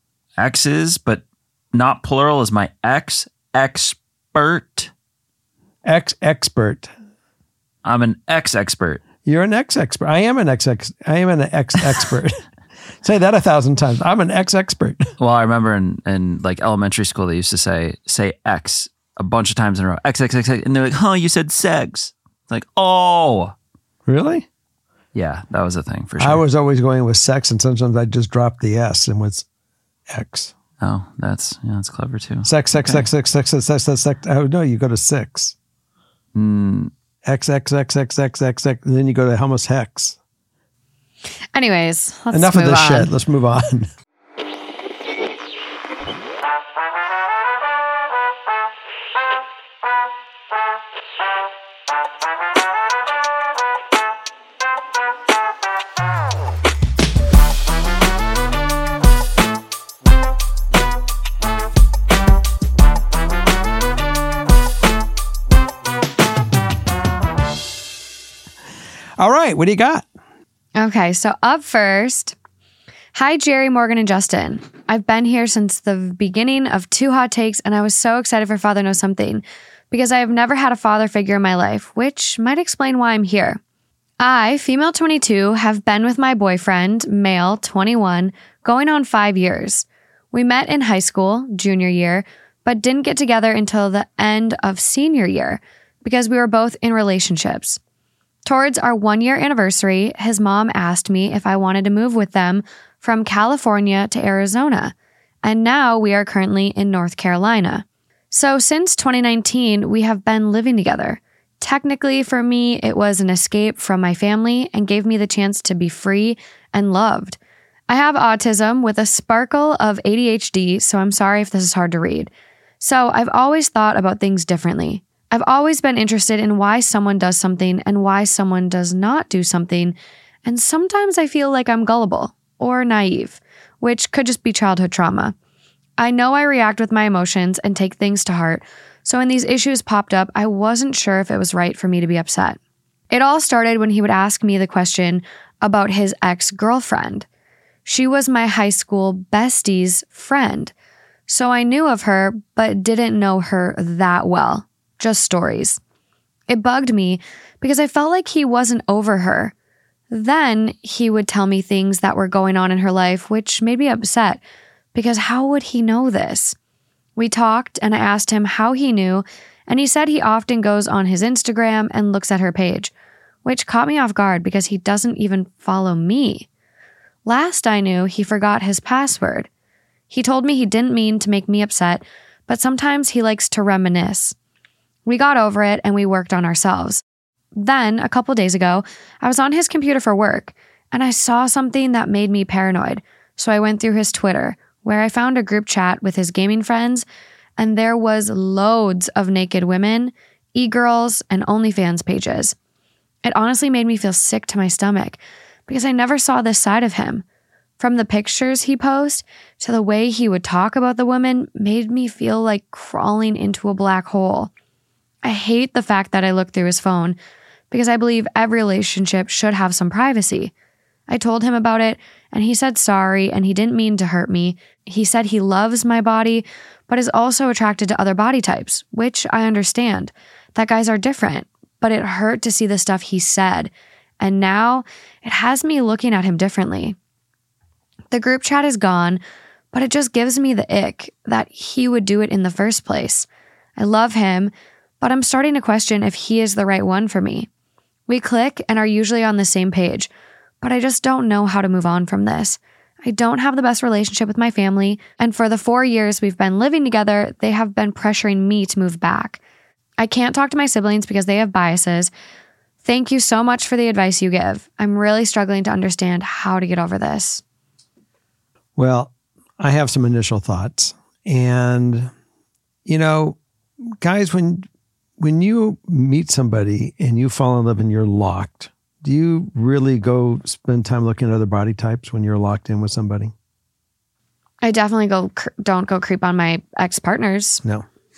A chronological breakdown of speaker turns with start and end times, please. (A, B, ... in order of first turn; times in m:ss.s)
0:00.4-0:04.9 A
0:05.8-0:06.9 B
0:07.8-0:09.0 A
0:09.2-0:12.4 B
0:13.0-0:15.1 B
0:15.2-0:23.5 A
0:24.1-0:24.5 B
0:25.1-0:26.4 A
0:26.2-0:29.4 B
0:30.1-0:30.5 B
0:30.8-0:33.0 A
0:32.4-0:35.5 B
0:36.3-0:36.9 A
0:37.2-0:40.2 B
0:41.5-0:43.1 C
0:42.3-0:43.9 B
1:09.2-1:10.1 B
1:10.7-1:12.3 C
1:13.1-1:23.6 C
1:24.2-1:37.8 C
1:38.4-1:57.4 C
1:57.9-2:15.3 C
2:16.0-2:22.6 C
2:23.1-2:27.3 C
2:27.8-2:30.7 C
2:31.3-2:35.8 C
2:36.5-2:39.5 C
2:40.1-2:44.4 C
2:44.9-2:46.6 C
2:47.2-2:52.9 C
2:53.4-2:56.5 C
2:57.2-2:59.5 C
3:00.1-3:04.3 C
3:05.0-3:07.0 C
3:07.6-3:17.0 C
3:17.6-3:22.5 C
3:23.2-3:27.2 C
3:27.8-3:34.5 C
3:35.2-3:37.2 C
3:37.7-3:40.5 C
3:41.1-3:57.0 C
3:58.1-3:59.2 C
3:59.7-4:07.5 C
4:08.1-4:10.1 C
4:10.6-4:19.4 C
4:20.0-4:22.1 C
4:22.8-4:27.4 C
4:28.8-4:32.1 B
4:32.8-4:33.4 B
4:34.0-4:34.6 B
4:35.2-4:43.3 B
4:44.6-4:47.6 C